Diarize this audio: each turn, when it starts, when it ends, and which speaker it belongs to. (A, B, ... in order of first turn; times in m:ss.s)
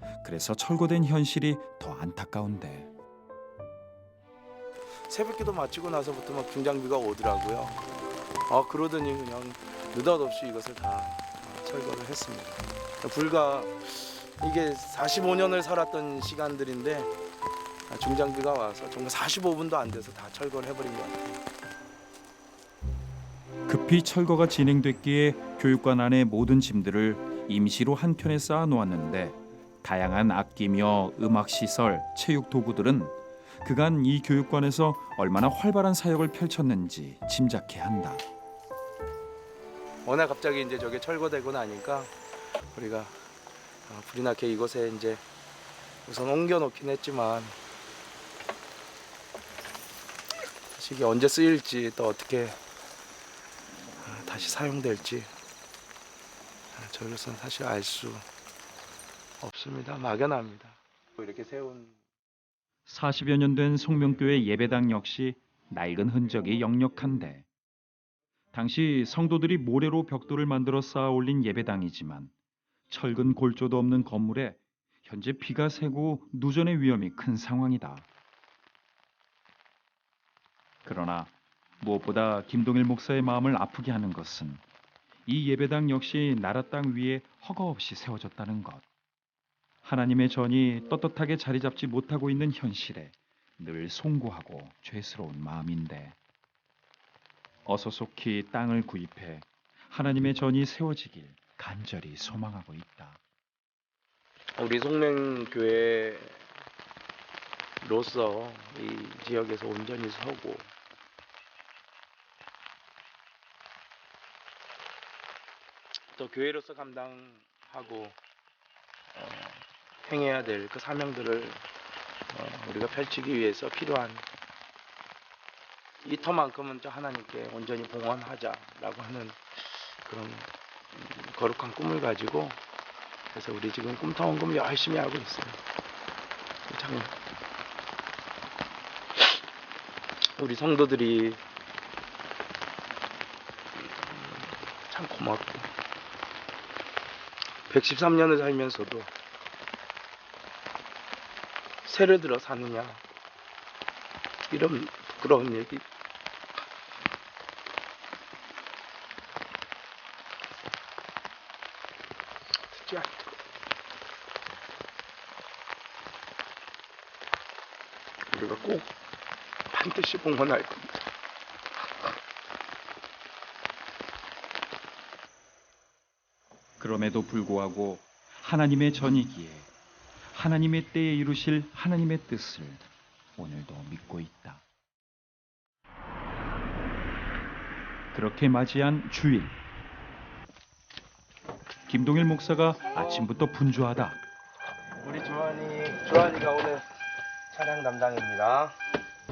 0:00.2-0:02.9 A
0:05.1-0:07.8 B
0:08.5-0:17.1 B
0:17.9-0:21.4 B
0:23.7-0:38.2 A
0:40.0-0:42.1 B
0:42.7-0:43.1 B
0:43.9-0:45.2 B
0:46.0-0:47.5 B
0:50.8-0:52.6 B
0:54.0-0:55.3 B
0:56.7-0:58.2 B
0:59.4-1:02.0 B
1:02.9-1:07.4 A
1:08.5-1:12.3 A
1:12.9-1:18.0 A
1:20.8-1:24.6 A
1:25.3-1:28.8 A
1:29.8-1:36.2 A
1:37.6-1:43.2 A
1:44.6-1:46.4 B
1:47.8-1:50.7 B
1:56.1-1:58.2 B
1:59.1-2:01.6 B
2:02.3-2:04.2 B
2:06.0-2:12.6 B
2:13.3-2:15.6 B
2:16.7-2:17.1 B
2:20.3-2:21.4 B
2:23.8-2:25.7 B
2:27.7-2:29.1 B
2:31.8-2:33.0 B
2:34.5-2:35.8 B
2:42.7-2:43.3 B
2:48.3-2:48.9 B
2:49.7-2:50.9 B
2:56.8-2:59.7 A
3:00.3-3:02.8 A
3:03.4-3:04.6 A
3:08.1-3:09.5 A
3:11.9-3:14.2 A
3:15.0-3:16.8 B
3:17.5-3:18.8 B